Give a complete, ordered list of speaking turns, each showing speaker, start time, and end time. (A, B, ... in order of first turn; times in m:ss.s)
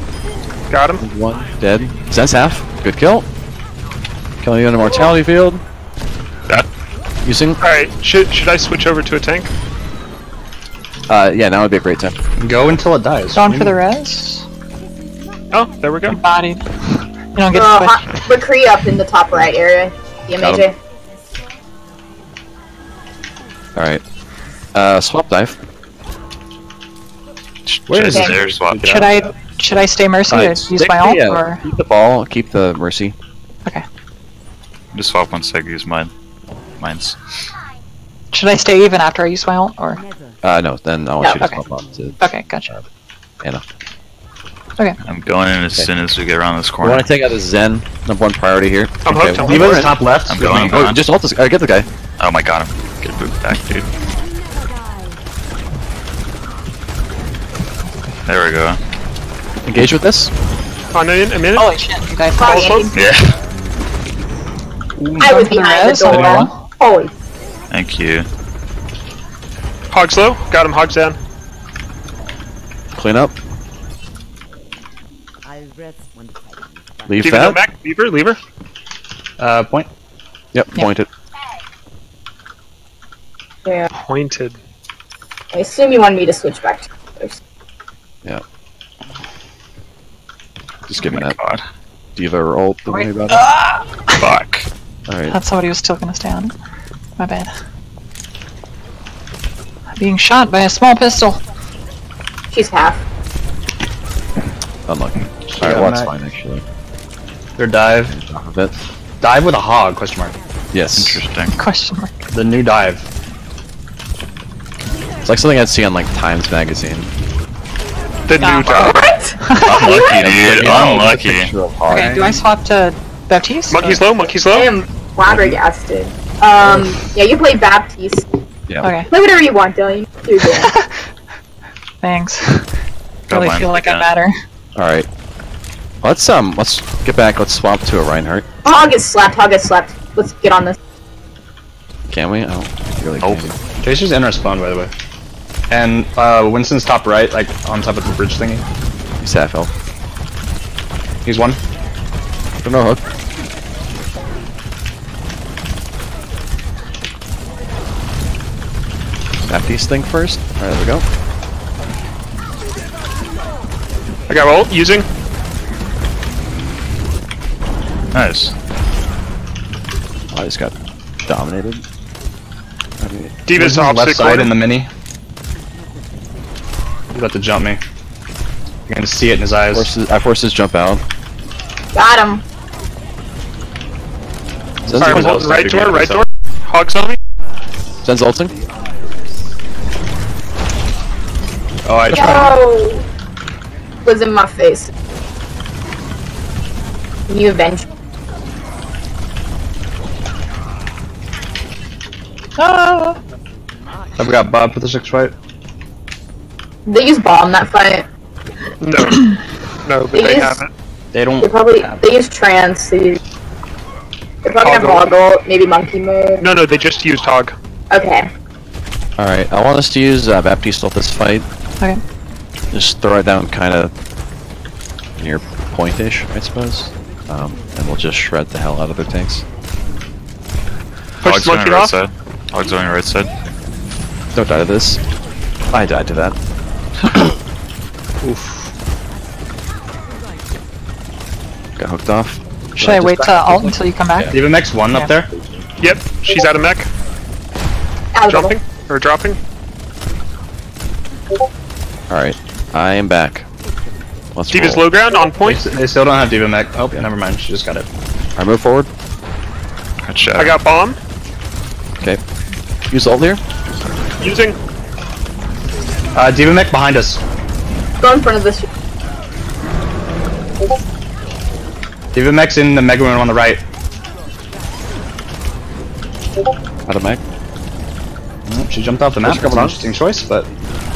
0:00.7-0:01.0 A
0:01.0-0:03.2 B
0:04.4-0:05.6 B
0:07.2-0:07.6 B
0:07.6-0:09.5 A
0:11.1-0:12.1 B
0:12.4-0:13.8 C
0:13.3-0:14.4 D
0:15.5-0:16.2 A
0:16.1-0:16.6 D
0:17.3-0:18.1 D
0:17.5-0:20.7 E
0:20.4-0:20.6 B
0:23.8-0:24.0 B
0:24.7-0:25.5 B
0:27.6-0:29.0 F
0:27.9-0:29.3 C
0:28.8-0:31.6 D
0:30.3-0:33.1 B
0:34.9-0:36.1 F
0:36.8-0:37.2 F
0:38.3-0:40.0 D
0:40.4-0:42.8 B
0:41.2-0:41.5 E
0:41.3-0:41.6 D
0:42.2-0:42.7 D
0:45.0-0:47.1 F
0:46.8-0:49.9 B
0:49.0-0:49.8 A
0:49.4-0:50.8 C
0:50.3-0:51.0 F
0:50.7-0:51.9 B
0:52.2-0:53.9 F
0:58.2-0:58.8 F
0:59.7-1:00.3 B
1:00.9-1:01.7 A
1:01.6-1:03.0 D
1:02.3-1:02.9 A
1:02.4-1:02.9 E
1:02.9-1:03.3 F
1:05.0-1:05.4 C
1:05.2-1:07.1 E
1:05.2-1:06.6 D
1:06.1-1:06.5 C
1:07.7-1:08.3 F
1:09.9-1:11.2 A
1:13.0-1:13.3 B
1:17.1-1:17.6 B
1:17.2-1:18.4 A
1:19.4-1:19.9 C
1:20.5-1:21.1 B
1:23.9-1:24.6 A
1:25.5-1:27.4 E
1:30.9-1:31.4 B
1:31.0-1:31.6 F
1:32.2-1:33.5 B
1:32.9-1:34.4 D
1:34.2-1:34.7 F
1:35.1-1:35.4 B
1:35.3-1:36.5 D
1:37.2-1:37.5 D
1:40.0-1:41.4 D
1:42.5-1:43.0 E
1:44.9-1:46.6 B
1:45.4-1:46.1 C
1:47.6-1:48.1 C
1:48.1-1:48.7 B
1:49.2-1:50.4 C
1:50.7-1:51.2 B
1:51.0-1:51.5 F
1:51.5-1:52.1 D
1:52.3-1:53.0 C
1:55.2-1:57.1 B
1:58.3-1:59.1 A
1:58.3-2:00.2 D
1:58.7-2:00.1 E
1:59.6-2:01.5 F
2:00.2-2:02.3 B
2:00.6-2:01.0 C
2:01.9-2:04.0 D
2:01.9-2:02.3 C
2:03.7-2:04.7 A
2:04.5-2:08.2 E
2:05.3-2:05.6 B
2:08.8-2:09.1 D
2:09.1-2:10.7 E
2:10.4-2:10.9 D
2:12.0-2:12.7 D
2:13.3-2:14.1 F
2:13.3-2:14.4 D
2:14.8-2:15.1 B
2:16.0-2:18.4 B
2:18.6-2:20.8 E
2:22.1-2:23.6 B
2:23.2-2:23.5 F
2:23.8-2:24.9 C
2:25.7-2:28.6 C
2:29.2-2:29.7 B
2:31.2-2:31.6 C
2:32.6-2:33.0 B
2:39.5-2:41.0 B
2:44.3-2:45.0 A
2:48.1-2:48.5 F
2:50.3-2:51.8 B
2:53.0-2:53.4 B
2:53.4-2:54.6 A
2:53.5-2:54.9 C
2:57.1-2:57.8 C
2:58.9-2:59.9 C
2:59.7-3:01.0 B
3:01.9-3:02.4 E
3:04.8-3:05.4 B
3:04.9-3:06.2 C
3:05.0-3:07.2 A
3:08.0-3:08.5 B
3:11.8-3:12.6 C
3:12.1-3:13.0 E
3:14.0-3:14.9 E
3:17.3-3:17.8 E
3:22.6-3:23.2 D
3:24.2-3:25.3 C
3:26.8-3:28.0 E
3:28.8-3:29.3 A
3:29.8-3:30.7 A
3:30.1-3:30.6 E
3:31.1-3:31.5 C
3:31.4-3:33.2 E
3:34.4-3:36.4 E
3:34.6-3:35.1 A
3:36.4-3:37.5 A
3:37.9-3:38.3 E
3:39.2-3:41.4 B
3:42.7-3:43.9 B
3:45.2-3:49.4 B
3:51.2-3:52.0 A
3:51.2-3:53.3 F
3:54.3-3:55.0 B
3:55.7-3:56.3 B
3:58.2-3:58.7 C
4:01.8-4:04.4 B
4:02.8-4:05.1 D
4:04.3-4:05.3 C
4:05.8-4:06.9 A
4:08.1-4:08.6 E
4:08.3-4:09.4 A
4:12.1-4:13.4 B
4:14.3-4:14.9 B
4:14.5-4:15.6 A
4:15.4-4:17.9 C
4:18.4-4:18.9 B
4:20.1-4:20.6 F
4:20.4-4:21.0 A
4:22.9-4:23.4 B
4:24.2-4:24.6 A
4:26.1-4:27.2 C
4:28.0-4:28.7 E
4:32.1-4:33.6 C
4:36.9-4:37.2 B
4:38.5-4:40.5 C
4:39.2-4:39.9 B